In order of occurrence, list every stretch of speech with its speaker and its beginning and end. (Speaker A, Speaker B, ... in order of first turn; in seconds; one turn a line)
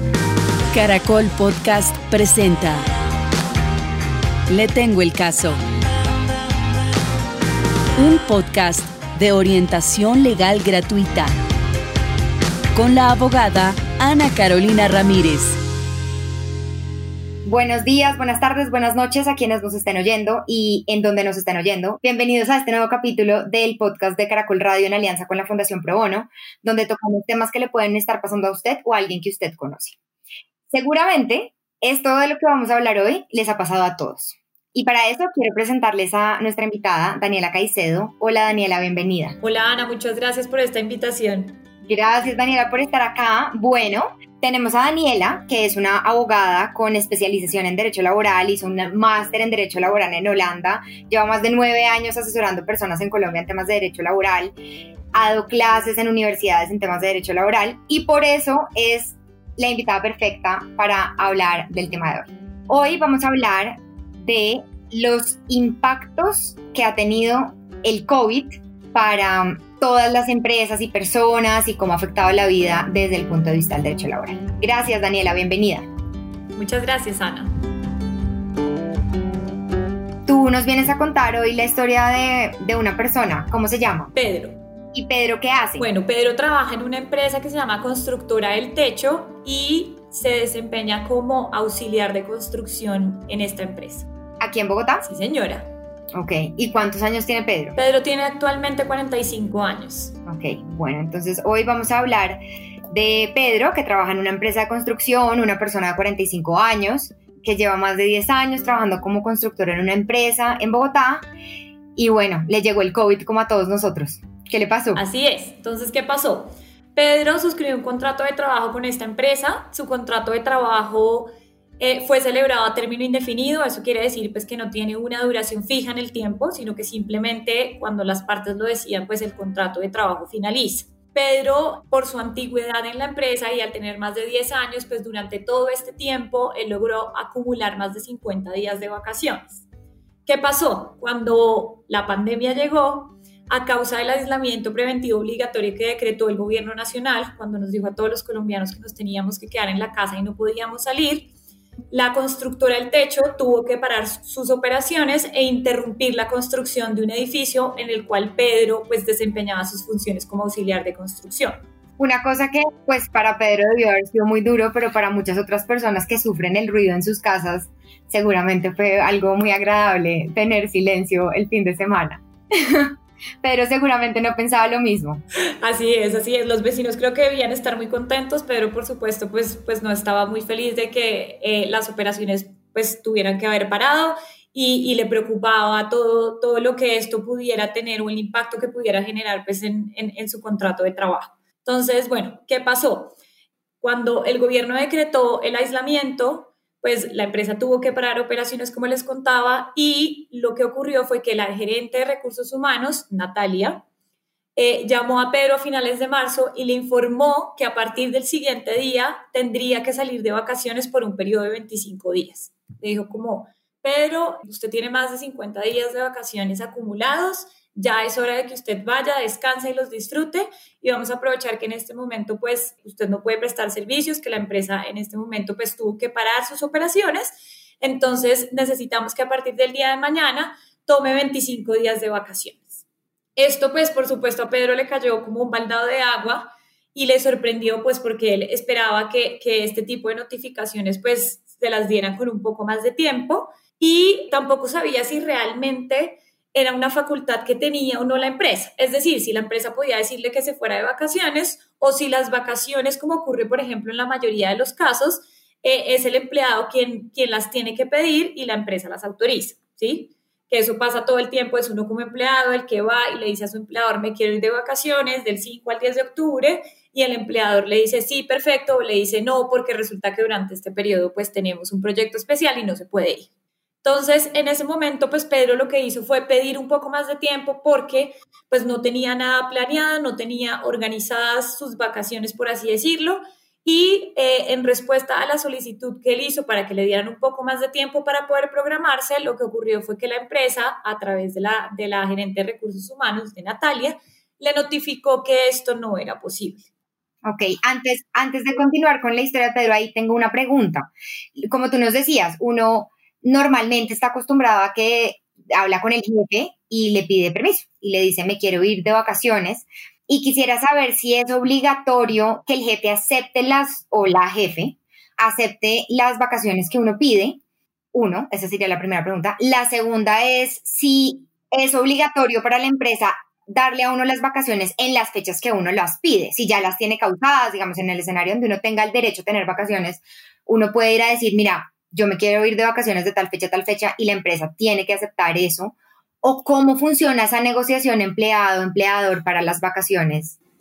Speaker A: 0.7-2.8
Speaker A: 4.5-5.6
Speaker A: 8.0-11.3
Speaker A: 12.8-15.6
Speaker B: 17.4-30.0
Speaker B: 30.7-39.4
Speaker C: 39.4-41.6
Speaker B: 41.8-54.5
Speaker B: 55.1-75.9
Speaker C: 76.5-77.5
Speaker B: 80.2-84.1
Speaker C: 84.1-84.6
Speaker B: 84.9-85.9
Speaker C: 85.8-94.1
Speaker B: 94.4-95.0
Speaker C: 95.0-95.7
Speaker B: 96.1-97.8
Speaker C: 97.8-100.1
Speaker B: 100.2-102.4
Speaker B: 102.9-111.2
Speaker B: 112.0-115.0
Speaker C: 115.0-139.7
Speaker C: 140.2-151.3
Speaker C: 151.9-161.6
Speaker B: 162.0-175.2
Speaker C: 175.6-193.1
Speaker C: 193.8-203.8
Speaker C: 204.6-232.8
Speaker C: 233.4-273.3
Speaker C: 273.8-296.7
Speaker B: 297.2-317.4
Speaker B: 317.9-340.4